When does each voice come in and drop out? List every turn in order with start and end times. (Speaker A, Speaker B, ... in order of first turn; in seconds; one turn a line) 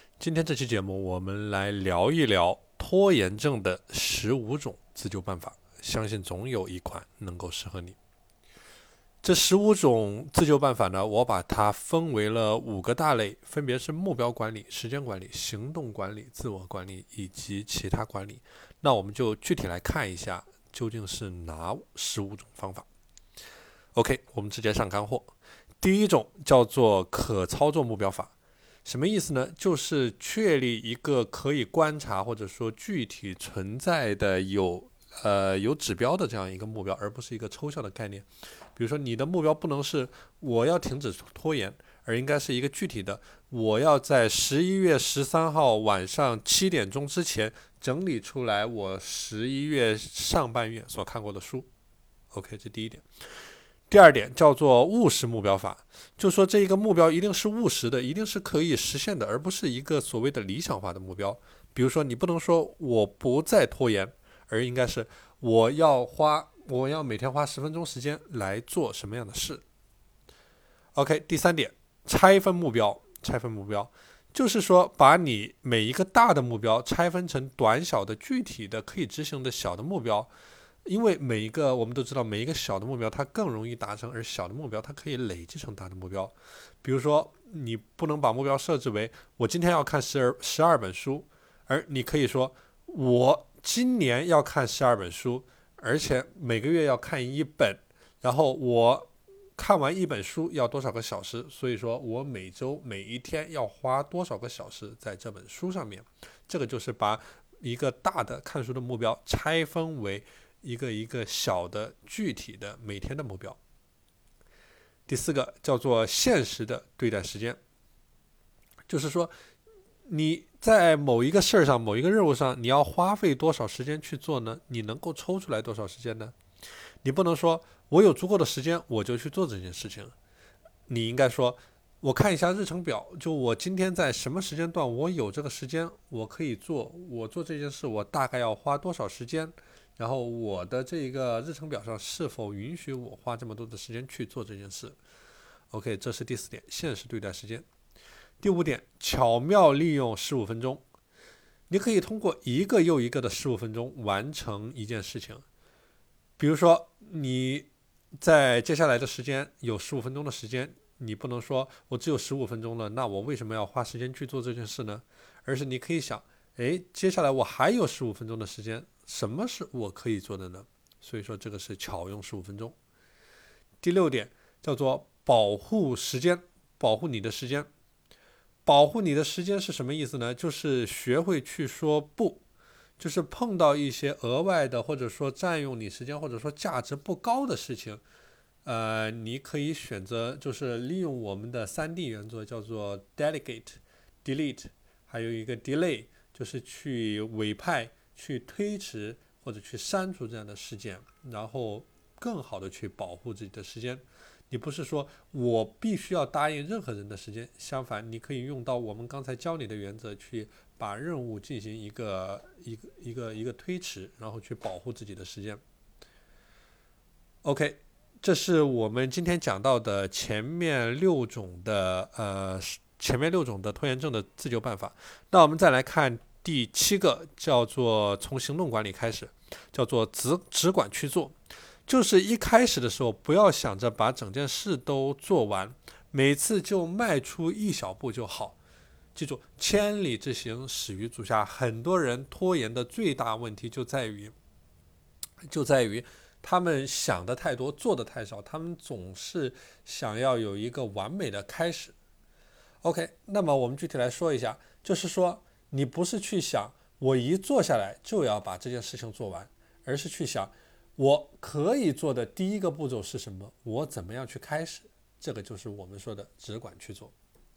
Speaker A: 0.2-8.0
Speaker A: 9.2-22.9
Speaker A: 23.9-28.3
Speaker A: 28.8-51.7
Speaker A: 52.3-53.0
Speaker A: 53.9-69.6
Speaker A: 70.9-80.3
Speaker A: 80.8-113.6
Speaker A: 115.1-117.6
Speaker A: 118.9-119.3
Speaker A: 120.0-126.3
Speaker A: 127.0-130.1
Speaker A: 130.9-145.0
Speaker A: 145.7-147.6
Speaker A: 148.4-150.8
Speaker A: 151.7-155.4
Speaker A: 156.4-172.8
Speaker A: 173.8-177.7
Speaker A: 178.7-182.4
Speaker A: 183.0-188.0
Speaker A: 188.6-215.6
Speaker A: 217.4-231.3
Speaker A: 231.9-238.6
Speaker A: 239.1-244.3
Speaker A: 245.5-251.9
Speaker A: 252.8-267.1